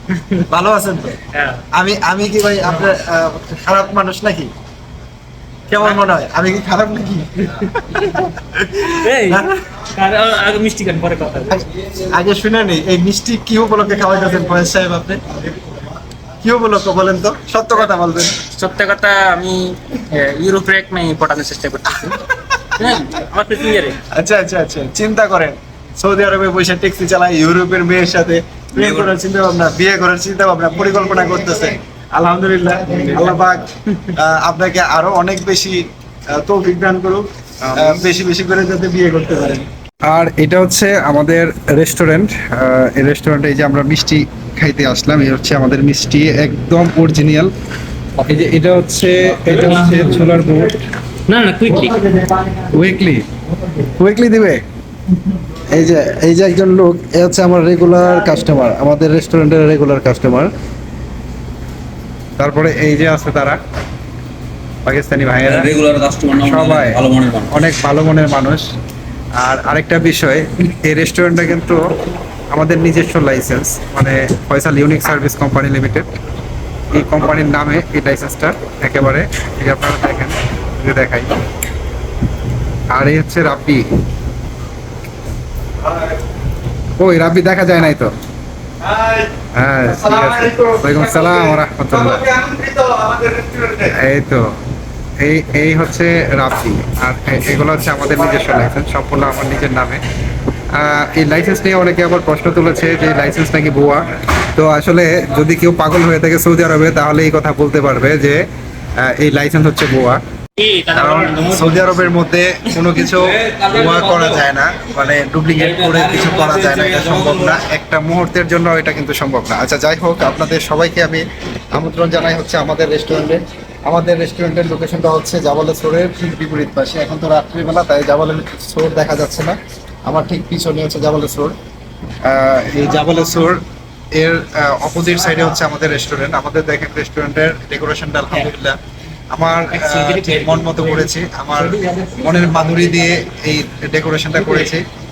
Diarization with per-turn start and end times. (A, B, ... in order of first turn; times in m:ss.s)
0:00.2-0:00.4 A
0:00.5-0:01.2 B
0:01.3-0:01.6 A
0:01.7-0:04.5 B
0:05.7-0:07.3 B
0:05.8-0:06.1 A
0:07.4-0:11.6 A
0:07.9-0:09.6 B
0:11.5-0:15.9 B
0:16.4-0:18.4 B
0:18.5-0:22.2 A
0:22.0-0:23.0 B
0:22.8-0:24.0 A
0:24.1-0:39.6 B
0:28.7-0:29.1 C
0:37.6-0:38.0 D
0:40.1-0:47.5 D
0:48.2-0:50.8 D
0:49.7-0:50.2 A
0:51.3-0:52.0 A
0:52.7-0:53.2 D
0:54.0-0:54.6 D
0:55.7-1:00.5 D
1:02.4-1:03.6 D
1:04.8-1:05.7 D
1:05.4-1:07.5 C
1:06.4-1:08.7 D
1:09.4-1:11.8 D
1:12.5-1:16.1 D
1:16.9-1:21.3 D
1:22.9-1:23.8 D
1:27.0-1:28.1 D
1:28.8-1:29.3 B
1:29.5-1:32.3 D
1:32.3-1:33.8 B
1:33.9-1:34.4 D
1:35.2-1:40.0 D
1:40.7-1:48.4 D
1:49.0-1:50.2 D
1:50.6-1:52.1 A
1:50.9-2:11.6 D
1:52.9-1:54.4 C
1:55.5-1:57.6 C
2:12.2-2:13.6 D
2:14.2-2:18.8 D
2:19.3-2:24.8 D
2:19.7-2:23.2 A
2:24.3-2:24.7 A